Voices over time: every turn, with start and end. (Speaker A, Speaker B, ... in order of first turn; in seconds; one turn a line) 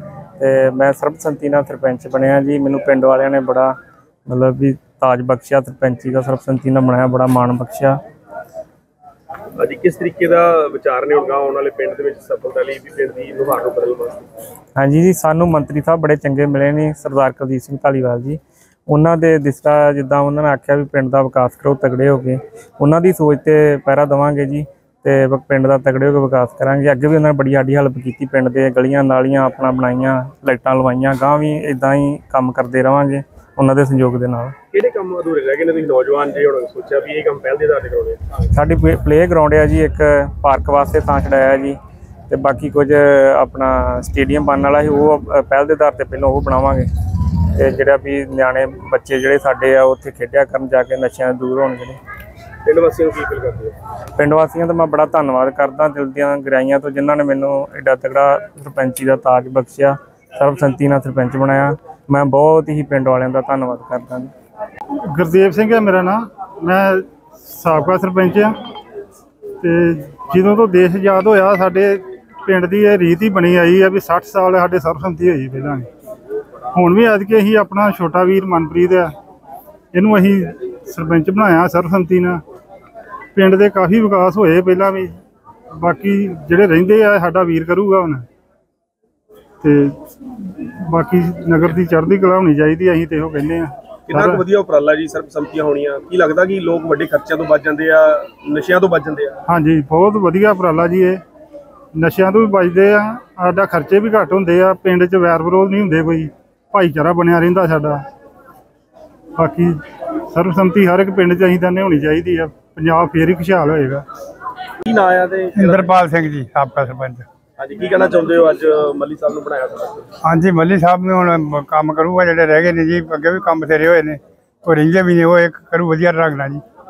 Speaker A: 0.4-3.8
Speaker A: 4.3-8.0
Speaker B: 9.6-14.3
Speaker A: 14.8-34.5
Speaker B: 34.7-38.2
Speaker A: 38.5-41.8
Speaker A: 42.3-46.9
Speaker A: 47.5-52.0
Speaker B: 52.6-53.8
Speaker A: 54.2-64.3
Speaker C: 64.9-68.5
Speaker C: 69.6-75.9
Speaker C: 76.7-79.1
Speaker C: 79.9-82.4
Speaker C: 83.3-85.2
Speaker C: 85.7-88.3
Speaker C: 89.6-94.4
Speaker B: 94.1-99.4
Speaker C: 99.5-101.2
Speaker C: 101.9-108.0
Speaker C: 109.4-114.0
Speaker B: 114.8-115.9
Speaker D: 115.6-117.2
Speaker B: 117.6-120.1
Speaker D: 120.2-126.6